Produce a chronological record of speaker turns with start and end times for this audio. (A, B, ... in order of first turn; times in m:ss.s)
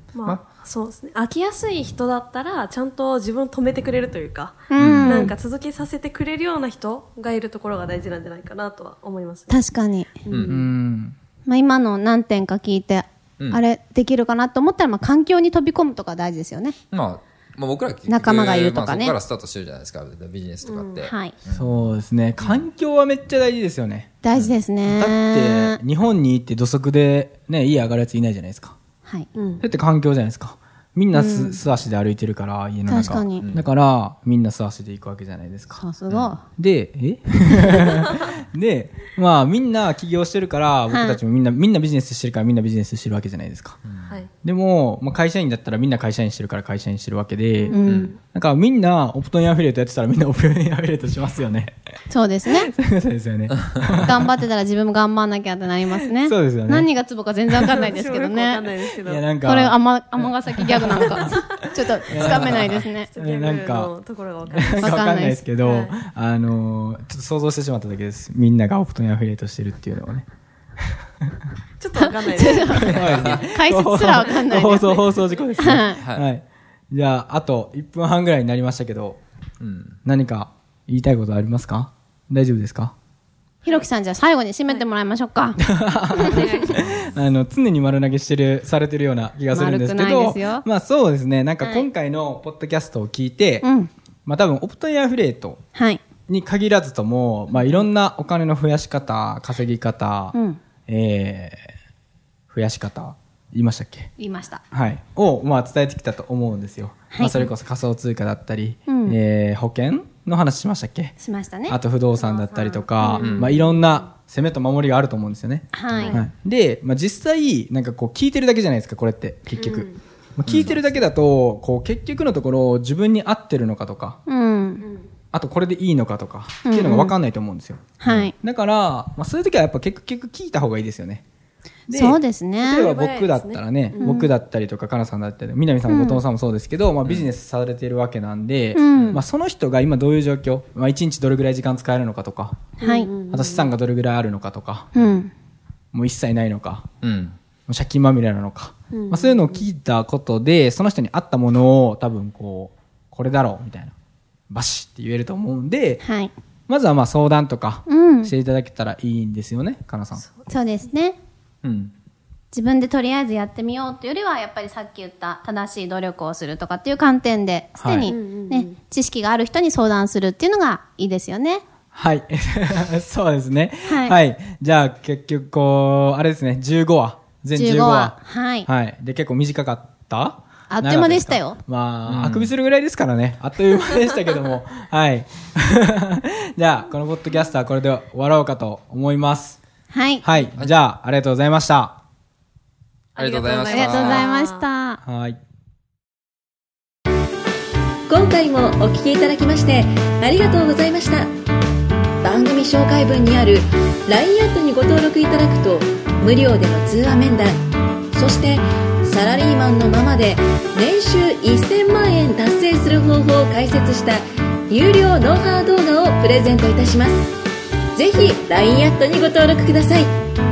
0:00.1-0:09.6 A
0:04.7-0:05.3 B
0:04.8-0:05.2 C
0:09.5-0:10.1 B
0:10.2-0:10.6 A
0:10.3-0:10.6 C
0:10.5-0:11.2 D
0:11.4-0:16.8 B
0:16.9-0:21.9 C
0:18.1-0:19.2 B
0:20.6-0:21.1 A
0:21.0-0:21.3 B
0:21.5-0:24.1 D
0:22.4-0:22.7 C
0:24.2-0:25.8 B
0:24.8-0:28.8 D
0:29.4-0:29.6 A
0:29.6-0:35.8 D
0:31.1-0:31.6 B
0:32.9-0:33.4 B
0:33.4-0:33.7 C
0:35.7-0:36.4 B
0:36.1-0:36.3 C
0:36.6-0:43.8 D
0:40.9-0:41.2 B
0:43.8-0:44.2 C
0:44.4-0:51.7 D
0:47.6-0:48.2 A
0:47.7-0:48.1 B
0:52.1-0:52.7 B
0:52.4-0:54.4 D
0:54.0-0:58.6 B
0:56.2-0:56.9 D
0:57.7-0:59.3 A
0:59.1-1:01.2 D
0:59.4-1:03.1 B
1:01.1-1:01.6 A
1:02.1-1:03.9 D
1:02.2-1:02.4 A
1:03.0-1:06.0 A
1:04.5-1:10.3 D
1:04.8-1:05.4 B
1:11.8-1:13.3 A
1:11.9-1:15.0 B
1:12.7-1:19.2 D
1:14.2-1:14.5 A
1:15.6-1:16.0 B
1:15.9-1:16.2 C
1:19.6-1:20.0 C
1:20.0-1:22.9 D
1:23.6-1:25.6 B
1:25.6-1:33.7 D
1:26.1-1:26.4 B
1:26.1-1:26.8 A
1:26.7-1:27.2 C
1:29.5-1:30.6 B
1:31.6-1:31.9 B
1:33.6-1:33.9 B
1:34.2-1:35.6 D
1:35.7-1:36.0 B
1:36.3-1:41.7 D
1:40.3-1:40.6 B
1:42.5-1:44.1 D
1:44.2-1:44.6 B
1:44.7-1:51.2 D
1:47.1-1:47.4 B
1:48.9-1:49.2 B
1:51.2-1:53.2 B
1:51.7-2:04.2 D
1:53.1-1:54.0 A
1:55.7-1:56.1 B
1:55.9-1:56.2 A
1:59.6-2:00.0 A
2:00.5-2:00.8 C
2:04.3-2:04.8 B
2:04.8-2:05.1 A
2:05.3-2:11.2 D
2:06.6-2:07.1 B
2:08.0-2:08.3 B
2:08.0-2:08.3 C
2:11.9-2:22.7 D
2:11.9-2:12.9 B
2:12.7-2:14.2 A
2:14.0-2:14.3 B
2:15.8-2:16.2 B
2:18.7-2:19.2 B
2:18.9-2:19.2 C
2:22.8-2:23.7 A
2:22.8-2:23.1 B
2:23.3-2:24.9 D
2:24.9-2:25.3 B
2:25.9-2:26.9 D
2:27.0-2:27.4 C
2:27.7-2:33.9 D
2:28.9-2:29.6 A
2:34.5-2:36.0 D
2:36.0-2:36.3 B
2:36.7-2:40.2 D
2:37.9-2:38.3 B
2:40.2-2:40.5 A
2:40.5-2:41.2 B
2:41.6-2:41.9 C
2:42.5-2:51.6 B
2:47.8-2:48.1 D
2:48.0-2:48.8 A
2:51.9-3:09.6 D
2:53.8-2:54.2 B
2:57.5-2:58.7 B
3:00.7-3:01.6 B
3:02.0-3:02.5 C
3:09.9-3:10.4 B
3:10.2-3:12.0 D
3:13.1-3:14.7 A
3:13.2-3:14.3 C
3:13.7-3:15.0 B
3:15.0-3:15.4 D
3:18.1-3:21.3 E
3:22.2-3:27.6 E
3:22.3-3:22.6 A
3:28.1-3:37.3 E
3:37.9-3:40.1 E